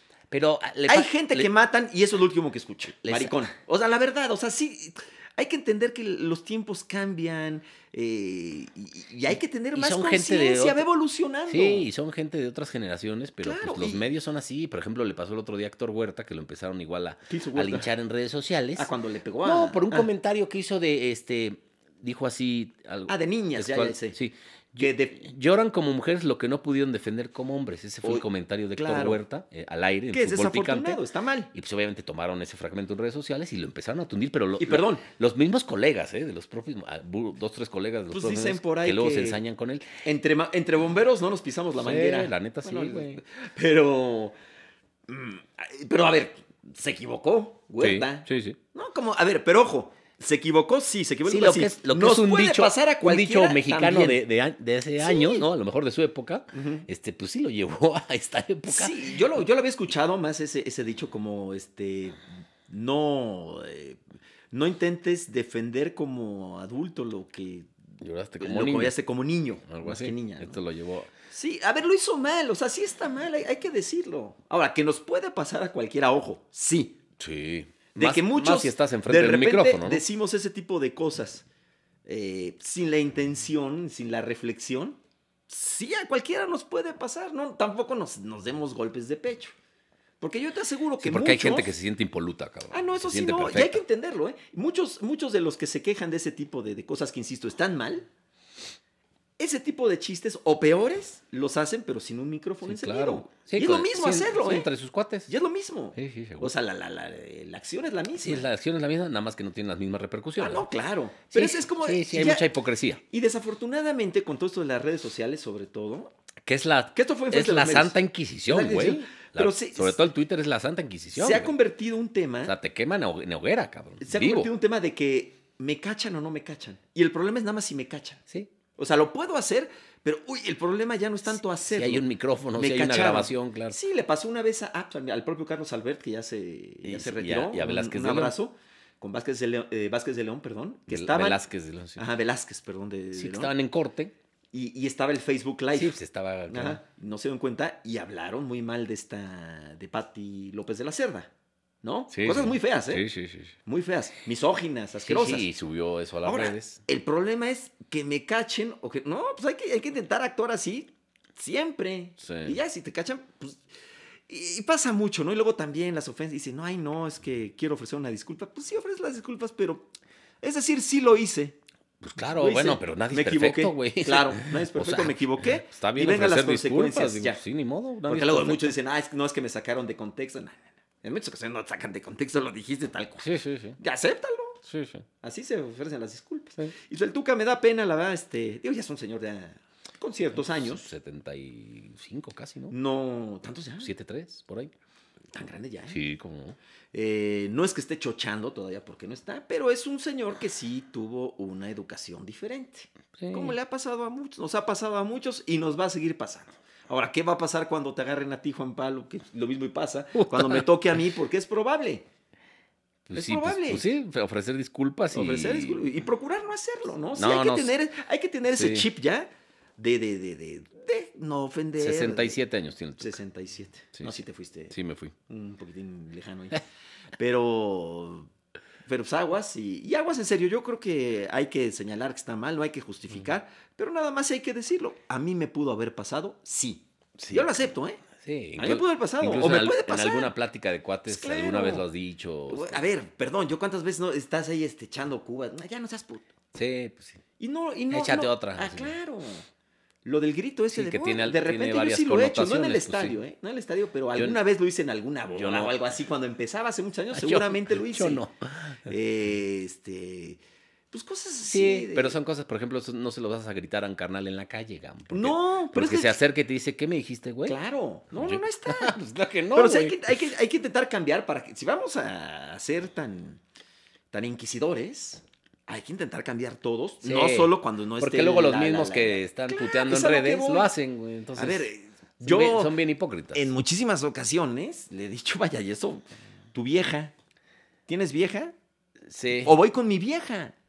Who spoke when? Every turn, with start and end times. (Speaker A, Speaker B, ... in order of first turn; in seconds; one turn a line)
Speaker A: 0.3-1.5
Speaker B: 0.9-11.9
Speaker A: 3.0-3.4
Speaker A: 9.8-10.9
Speaker A: 11.5-18.9
Speaker B: 13.4-14.1
Speaker B: 17.3-17.9
Speaker B: 18.8-20.1
Speaker A: 19.4-31.0
Speaker B: 23.1-24.2
Speaker B: 24.8-25.2
Speaker B: 28.0-29.2
Speaker B: 30.1-31.5
Speaker A: 31.5-39.9
Speaker B: 34.6-35.0
Speaker B: 38.1-39.4
Speaker B: 40.0-44.4
Speaker A: 41.8-43.2
Speaker B: 45.1-54.2
Speaker A: 47.8-48.6
Speaker A: 51.2-59.4
Speaker B: 55.0-55.5
Speaker B: 56.5-56.9
Speaker B: 58.7-64.0
Speaker B: 64.5-67.7
Speaker A: 68.0-68.9
Speaker B: 68.4-70.6
Speaker A: 69.7-71.1
Speaker B: 71.3-77.0
Speaker A: 77.2-80.0
Speaker B: 78.0-81.5
Speaker B: 82.1-85.0
Speaker B: 85.5-89.5
Speaker B: 90.2-91.7
Speaker A: 91.0-93.8
Speaker B: 92.7-98.1
Speaker B: 99.4-104.7
Speaker A: 102.6-105.3
Speaker B: 105.3-108.5
Speaker A: 106.0-106.5
Speaker A: 108.2-110.6
Speaker B: 110.4-112.5
Speaker A: 111.3-113.0
Speaker B: 113.1-116.1
Speaker A: 116.5-121.5
Speaker B: 116.9-118.0
Speaker B: 118.5-120.0
Speaker B: 121.1-122.5
Speaker A: 122.5-124.5
Speaker B: 124.0-128.2
Speaker B: 128.8-141.4
Speaker A: 131.7-133.8
Speaker A: 136.8-138.3
Speaker A: 140.9-142.0
Speaker B: 142.0-143.5
Speaker A: 143.1-144.1
Speaker B: 144.5-146.0
Speaker A: 145.7-146.8
Speaker B: 146.5-151.3
Speaker B: 151.8-153.1
Speaker A: 152.1-153.6
Speaker B: 153.7-155.5
Speaker A: 155.0-156.8
Speaker B: 156.2-163.7
Speaker A: 162.2-162.6
Speaker B: 164.3-169.9
Speaker B: 170.4-171.6
Speaker A: 172.0-178.8
Speaker B: 172.2-177.4
Speaker B: 178.1-184.6
Speaker A: 183.2-183.8
Speaker A: 184.7-185.1
Speaker B: 185.2-190.9
Speaker A: 190.3-192.8
Speaker B: 192.7-193.9
Speaker A: 193.8-194.7
Speaker B: 195.3-196.0
Speaker A: 195.9-196.6
Speaker B: 196.9-212.1
Speaker A: 203.2-203.6
Speaker A: 210.2-210.7
Speaker A: 213.1-215.9
Speaker B: 213.1-213.8
Speaker B: 215.1-222.4
Speaker A: 217.2-217.7
Speaker A: 218.5-218.9
Speaker A: 221.8-223.2
Speaker B: 223.0-224.8
Speaker A: 223.9-225.1
Speaker B: 225.3-226.6
Speaker B: 227.2-228.3
Speaker B: 228.9-238.0
Speaker A: 237.2-237.5
Speaker A: 238.2-242.9
Speaker B: 238.6-240.3
Speaker B: 241.1-241.9
Speaker B: 242.5-246.3
Speaker A: 246.5-247.2
Speaker B: 247.4-249.4
Speaker A: 247.9-248.9
Speaker B: 250.1-258.2
Speaker A: 250.7-253.2
Speaker A: 255.3-255.8
Speaker A: 257.1-258.8
Speaker B: 258.9-260.4
Speaker B: 260.9-262.2
Speaker A: 261.5-267.6
Speaker B: 265.1-266.2
Speaker B: 267.4-269.0
Speaker A: 268.1-270.3
Speaker B: 269.5-273.4
Speaker B: 274.1-280.7
Speaker A: 277.0-281.7
Speaker B: 281.4-282.8
Speaker A: 282.2-283.5
Speaker B: 283.3-287.1
Speaker B: 287.9-288.5
Speaker A: 289.1-289.6
Speaker B: 289.4-290.5